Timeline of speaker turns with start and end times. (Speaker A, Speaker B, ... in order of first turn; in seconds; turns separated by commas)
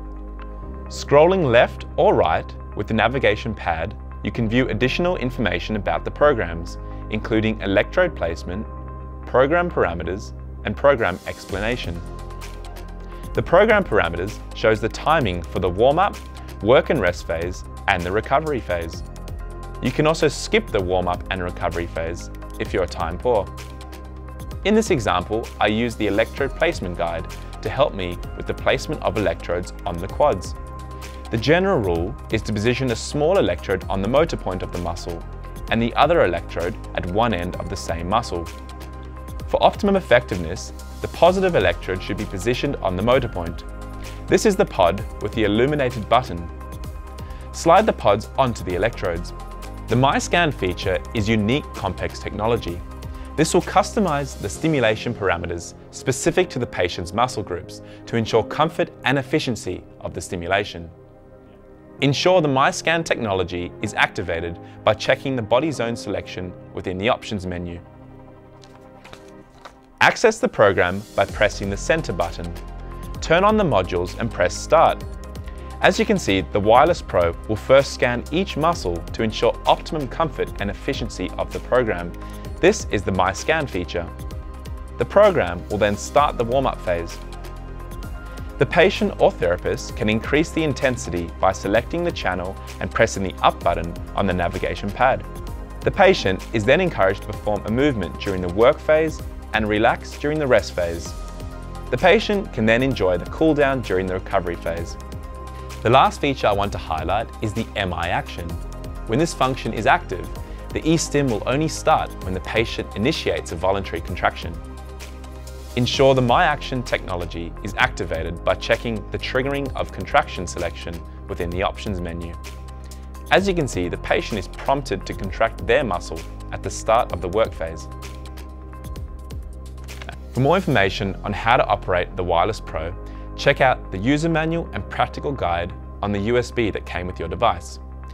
Speaker A: 0.9-8.7, Speaker A: 9.2-12.1, Speaker A: 13.3-19.0, Speaker A: 19.8-23.5, Speaker A: 24.6-30.6, Speaker A: 31.3-38.5, Speaker A: 39.5-43.6, Speaker A: 44.3-46.5, Speaker A: 47.5-49.3, Speaker A: 49.9-52.8, Speaker A: 53.4-60.9, Speaker A: 62.0-67.8, Speaker A: 70.0-72.6, Speaker A: 73.2-75.0, Speaker A: 75.8-84.1, Speaker A: 85.0-87.2, Speaker A: 88.6-95.2, Speaker A: 95.8-101.2, Speaker A: 101.9-105.0, Speaker A: 105.8-114.6, Speaker A: 115.8-122.4, Speaker A: 123.3-127.9, Speaker A: 130.3-137.8